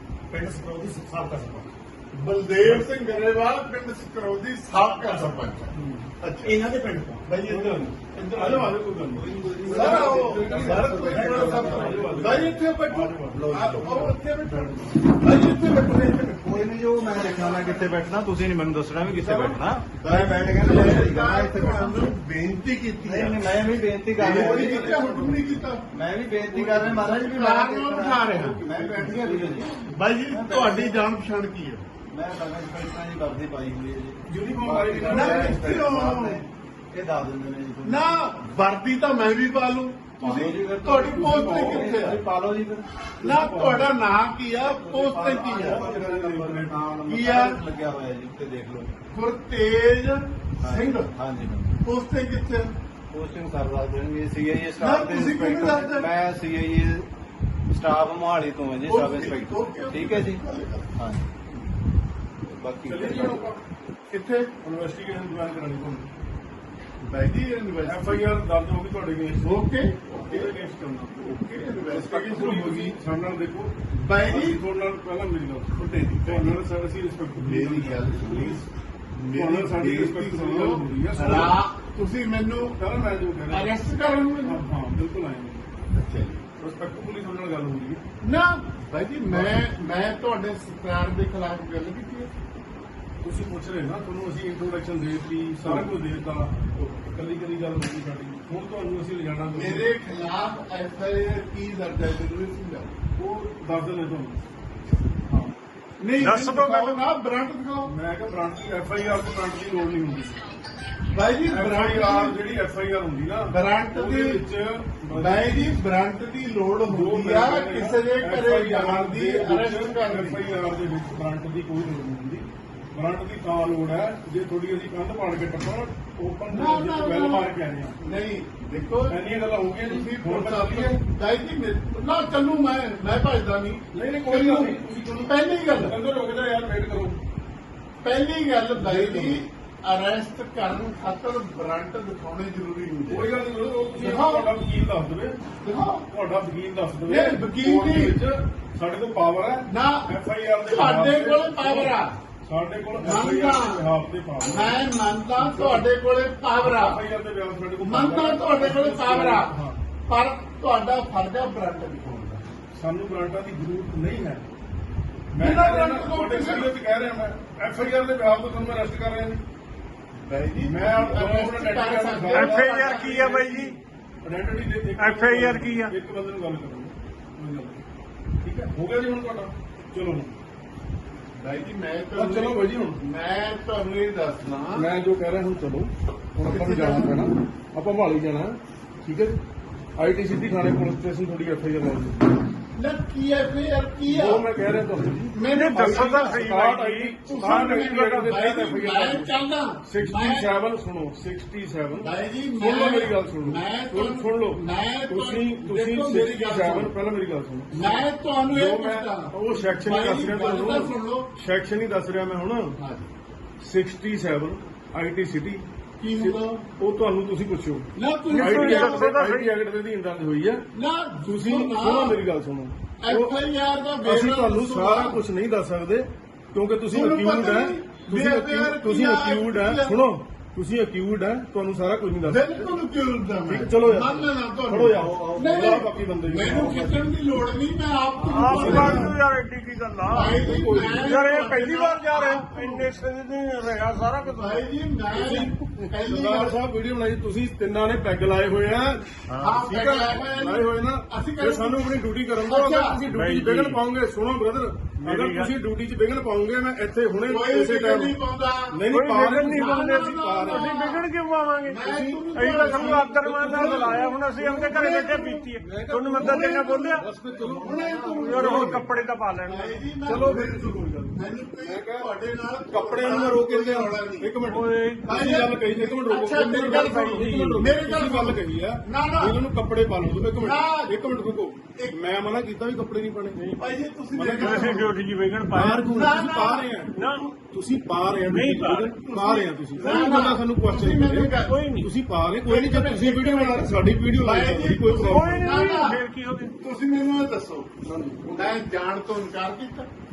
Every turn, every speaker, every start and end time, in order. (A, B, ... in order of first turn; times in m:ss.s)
0:00.3-0:01.7 A
0:02.1-0:06.6 B
0:05.8-0:06.1 C
0:06.4-0:07.2 A
0:07.3-0:08.8 B
0:07.4-0:14.7 C
0:09.1-0:12.6 D
0:09.6-0:16.7 B
0:13.2-0:14.1 D
0:16.4-0:22.1 D
0:19.0-0:19.6 C
0:20.0-0:23.4 B
0:23.0-0:31.0 D
0:24.1-0:25.8 B
0:24.2-0:25.3 C
0:26.4-0:31.8 B
0:32.1-0:38.4 D
0:34.3-0:35.9 C
0:35.0-0:36.4 B
0:37.8-0:42.2 B
0:40.2-0:42.9 D
0:41.1-0:41.9 C
0:43.2-0:45.8 B
0:43.2-0:44.0 C
0:44.6-0:49.0 D
0:45.5-0:46.8 C
0:47.0-0:47.6 B
0:49.1-0:51.1 B
0:50.6-0:51.8 D
0:51.8-0:52.7 B
0:53.1-0:57.1 D
0:54.8-0:56.1 B
0:57.7-1:00.4 D
0:58.8-1:00.9 B
1:00.9-1:01.2 D
1:02.4-1:03.5 D
1:02.8-1:03.6 C
1:04.1-1:04.5 B
1:04.6-1:06.1 C
1:07.0-1:08.3 B
1:07.8-1:11.1 C
1:09.4-1:10.5 B
1:11.1-1:13.0 B
1:11.9-1:18.7 C
1:13.9-1:14.6 B
1:15.7-1:16.6 B
1:17.4-1:22.8 B
1:19.3-1:21.6 C
1:22.8-1:23.8 C
1:23.5-1:24.6 B
1:24.4-1:25.7 C
1:25.9-1:26.4 B
1:26.6-1:28.0 C
1:28.2-1:32.3 B
1:33.2-1:39.9 C
1:35.6-1:35.9 B
1:39.5-1:42.9 B
1:43.2-1:44.4 C
1:46.0-1:47.9 B
1:46.2-1:47.0 E
1:47.8-1:50.4 C
1:51.1-1:52.4 B
1:51.5-1:55.8 C
1:53.5-1:54.4 B
1:55.1-2:00.4 B
1:56.9-2:08.0 C
2:06.5-2:09.2 B
2:09.1-2:11.0 C
2:09.8-2:16.0 B
2:13.9-2:17.2 C
2:18.0-2:23.3 B
2:18.8-2:19.4 C
2:23.1-2:25.4 C
2:24.0-2:24.5 B
2:25.6-2:26.1 B
2:26.1-2:34.8 C
2:27.1-2:28.2 B
2:29.7-2:30.1 B
2:30.7-2:32.2 B
2:33.0-2:33.9 B
2:34.4-2:37.0 B
2:35.4-2:35.8 C
2:36.6-2:39.8 C
2:37.8-2:39.5 B
2:40.1-2:42.4 B
2:42.7-2:44.5 C
2:45.3-2:49.4 C
2:45.4-2:46.7 B
2:50.2-2:53.7 B
2:50.6-2:52.8 C
2:52.3-2:53.8 E
2:54.2-2:57.8 C
2:55.0-2:55.9 E
2:58.4-3:00.4 C
3:01.4-3:04.9 B
3:02.2-3:03.0 C
3:04.8-3:09.4 C
3:06.4-3:07.2 B
3:10.0-3:12.2 C
3:12.8-3:14.4 B
3:14.1-3:28.0 C
3:15.3-3:16.4 B
3:15.5-3:18.4 E
3:17.2-3:20.5 B
3:22.0-3:26.9 B
3:27.7-3:31.3 B
3:28.5-3:32.8 C
3:32.8-3:33.1 B
3:33.6-3:35.6 C
3:36.0-3:36.6 B
3:36.2-3:40.6 C
3:38.0-3:39.1 B
3:38.3-3:39.5 E
3:40.7-3:42.2 B
3:41.2-3:43.3 C
3:43.0-3:45.2 B
3:44.0-3:52.7 C
3:46.9-3:50.1 B
3:52.2-3:59.2 B
3:53.5-3:57.0 C
3:58.2-4:00.4 E
3:58.4-3:59.1 C
4:00.1-4:02.9 B
4:00.3-4:01.1 C
4:01.0-4:04.6 E
4:04.3-4:06.6 B
4:05.1-4:18.2 C
4:09.3-4:13.0 B
4:13.1-4:13.8 E
4:15.0-4:15.5 E
4:17.3-4:18.8 B
4:18.7-4:20.8 C
4:18.9-4:27.1 E
4:19.5-4:21.1 B
4:21.6-4:24.1 B
4:22.4-4:28.8 C
4:26.2-4:28.9 B
4:28.1-4:29.8 E
4:29.4-4:34.3 B
4:30.1-4:32.1 C
4:32.7-4:43.4 C
4:34.4-4:35.1 E
4:35.1-4:39.4 B
4:36.3-4:37.7 E
4:40.3-4:41.0 B
4:43.3-4:43.6 E
4:43.6-4:44.9 B
4:44.1-4:44.8 C
4:44.4-4:45.9 E
4:45.6-4:55.6 C
4:45.9-4:47.3 B
4:46.9-4:47.3 E
4:48.3-4:49.0 E
4:49.0-4:51.6 B
4:51.5-4:51.9 E
4:52.4-4:56.0 B
4:55.0-4:56.6 E
4:56.6-4:57.7 B
4:57.8-4:58.6 C
4:58.3-4:59.9 B